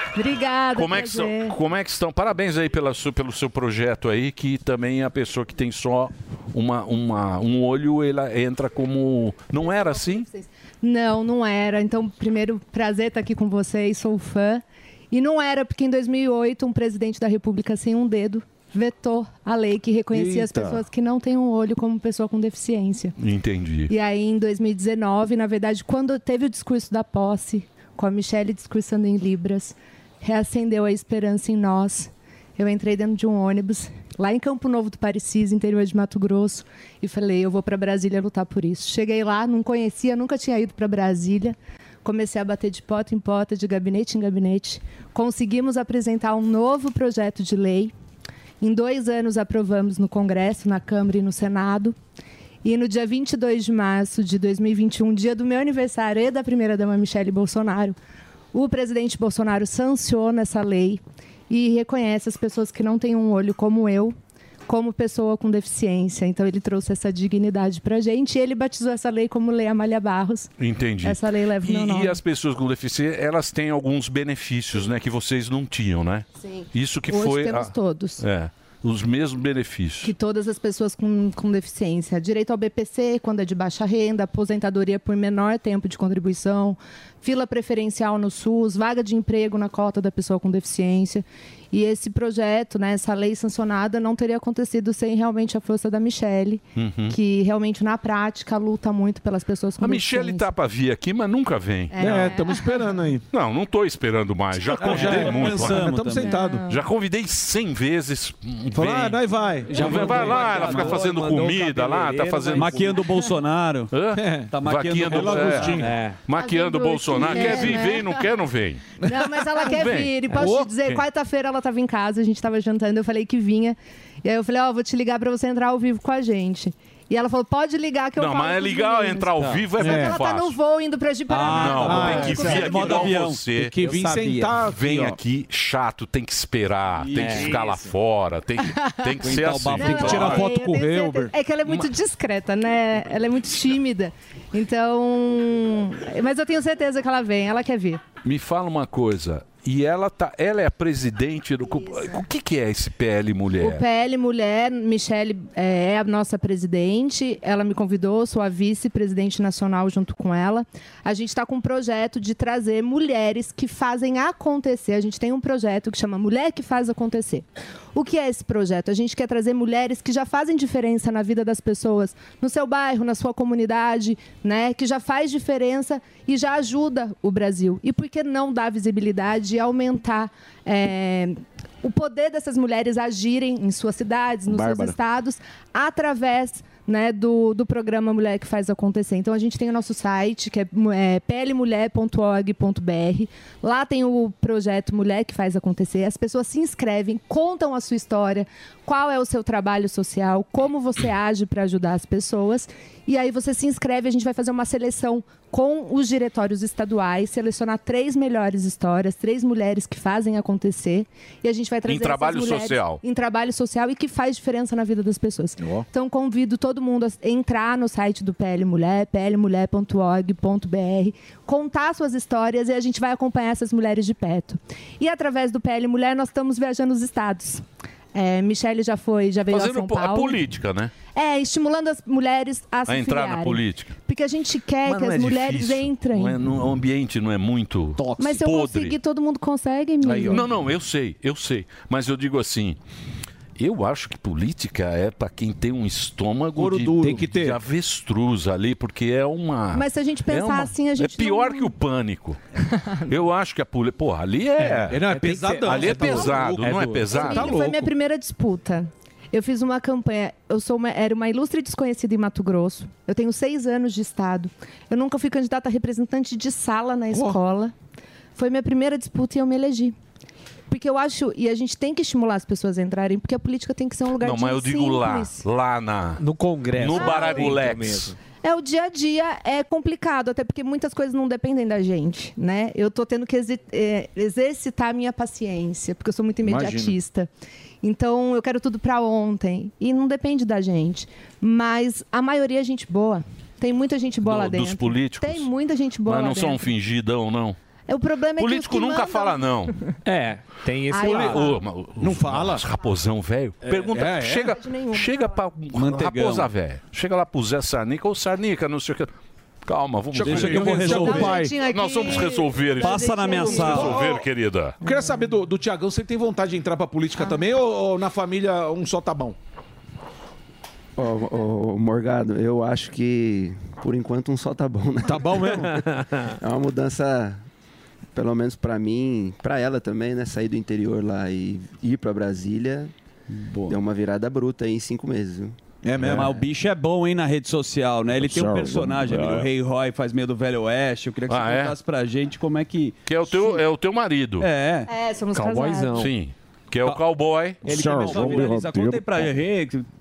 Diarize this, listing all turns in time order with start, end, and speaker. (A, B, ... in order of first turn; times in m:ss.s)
0:00.1-0:01.6 A
0:00.7-0:10.3 B
0:09.7-0:23.1 A
0:20.1-0:20.8 C
0:23.2-0:23.9 B
0:23.9-0:47.9 A
0:48.6-0:52.0 A
0:52.6-0:58.0 A
0:58.5-1:04.2 A
1:04.7-1:10.5 A
1:10.6-1:20.1 B
1:11.0-1:12.2 A
1:16.4-1:18.2 A
1:20.0-1:40.5 A
1:36.8-1:37.2 B
1:39.8-1:42.2 B
1:41.9-1:42.7 A
1:42.0-1:43.2 C
1:43.3-1:45.9 B
1:44.8-1:46.3 D
1:44.8-1:46.6 C
1:46.2-1:46.8 A
1:46.7-1:49.2 B
1:48.7-1:51.0 C
1:49.7-1:53.1 E
1:49.7-1:53.0 B
1:49.8-1:51.4 D
1:52.5-1:53.9 D
1:53.9-2:00.6 B
1:54.5-1:55.8 D
1:55.1-1:55.9 C
1:55.8-1:56.2 E
1:56.3-1:58.3 A
1:59.0-2:13.1 A
2:00.3-2:00.7 E
2:08.2-2:10.6 B
2:09.4-2:09.7 E
2:09.8-2:10.1 C
2:11.3-2:14.4 D
2:11.5-2:13.8 B
2:11.8-2:12.8 C
2:13.6-2:15.2 C
2:14.6-2:20.4 B
2:17.0-2:17.9 D
2:17.2-2:17.6 E
2:18.6-2:19.1 A
2:19.2-2:21.3 D
2:19.8-2:28.0 A
2:20.1-2:21.3 C
2:28.2-2:33.8 B
2:31.7-2:32.2 A
2:33.6-3:50.4 A
3:04.5-3:05.0 C
3:31.8-3:33.0 B
3:49.5-3:50.9 B
3:51.1-3:56.4 A
3:52.9-3:53.9 B
3:54.8-3:59.0 B
3:58.2-4:00.5 A
4:00.2-4:02.8 B
4:03.6-4:12.4 B
4:06.6-4:07.5 D
4:07.0-4:07.3 C
4:09.7-4:11.7 A
4:12.6-4:13.1 A
4:13.1-4:15.0 B
4:14.9-4:17.9 C
4:15.1-4:15.7 E
4:15.6-4:17.6 B
4:15.9-4:17.0 D
4:16.7-4:17.0 E
4:17.1-4:27.7 A
4:27.1-4:27.4 C
4:28.4-4:29.9 A
4:30.7-4:35.4 A
4:34.2-4:36.2 B
4:36.2-4:38.2 E
4:36.8-4:38.1 B
4:37.0-4:37.6 A
4:38.4-4:47.3 A
4:46.4-4:47.0 C
4:47.8-4:56.7 A
4:54.2-4:55.5 B
4:56.0-4:57.6 B
4:57.9-4:59.9 A
4:58.4-4:59.8 B
5:00.0-5:01.6 E
5:00.9-5:01.6 A
5:00.9-5:09.1 B
5:02.0-5:02.6 C
5:03.9-5:04.5 C
5:04.5-5:05.4 A
5:05.7-5:06.5 D
5:09.6-5:14.8 B
5:10.2-5:11.6 D
5:10.2-5:11.4 C
5:10.8-5:13.9 A
5:12.8-5:14.0 D
5:13.6-5:14.2 C
5:14.8-5:19.4 C
5:21.0-5:27.4 F
5:25.1-5:25.7 C
5:25.6-5:26.3 E
5:28.1-5:32.9 F
5:33.4-5:33.7 D
5:33.6-5:35.5 F
5:35.9-5:43.0 D
5:36.0-5:36.4 C
5:38.2-5:39.5 C
5:41.3-5:41.8 B
5:43.0-5:44.5 B
5:44.4-5:44.9 D
5:44.9-5:46.1 A
5:45.4-5:46.1 E
5:45.9-5:47.6 B
5:47.6-5:49.8 D
5:47.6-5:49.2 C
5:48.0-5:48.4 E